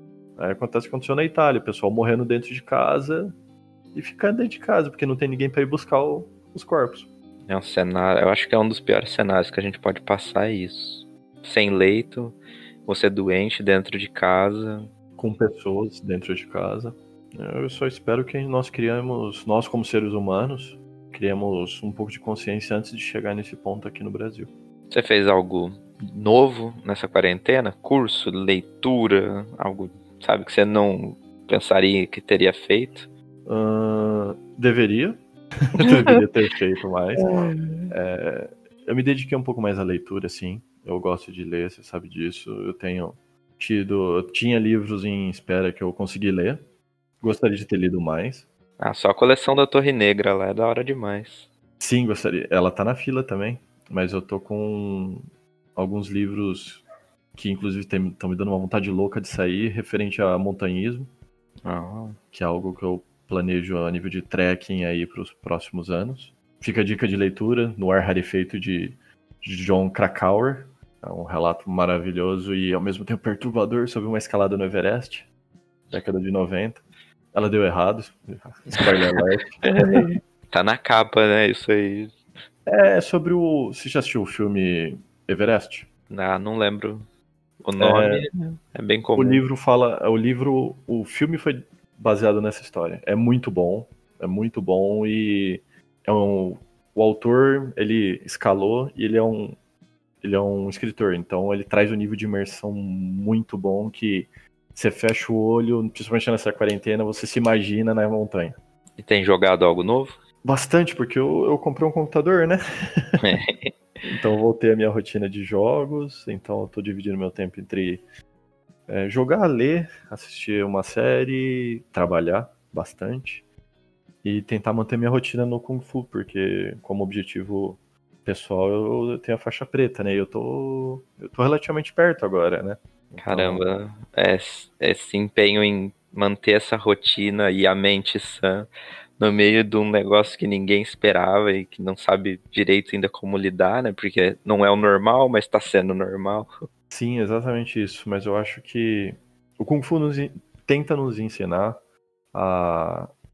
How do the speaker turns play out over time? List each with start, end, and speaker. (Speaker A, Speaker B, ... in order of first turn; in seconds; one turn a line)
Speaker A: 0.4-3.3
Speaker A: 3.9-7.1
Speaker B: 7.5-14.9
Speaker A: 15.2-24.5
Speaker B: 24.9-33.1
Speaker A: 33.5-37.3
Speaker B: 35.8-36.2
Speaker B: 37.2-37.9
Speaker A: 37.9-46.6
Speaker A: 47.2-48.5
Speaker B: 48.8-51.5
Speaker A: 51.8-55.2
Speaker A: 55.8-56.8
Speaker A: 57.3-61.1
Speaker B: 61.6-62.2
Speaker A: 62.3-75.3
Speaker A: 75.9-76.8
Speaker A: 77.3-80.0
Speaker B: 78.7-82.1
Speaker A: 82.7-85.9
Speaker B: 86.1-87.0
Speaker B: 87.6-89.4
Speaker A: 87.8-88.3
Speaker A: 89.2-99.6
Speaker A: 100.2-108.5
Speaker B: 109.0-110.2
Speaker A: 110.4-113.2
Speaker B: 113.2-113.7
Speaker A: 114.0-118.0
Speaker A: 118.9-123.4
Speaker A: 124.2-133.6
Speaker B: 133.2-146.7
Speaker A: 146.9-151.8
Speaker A: 152.3-153.1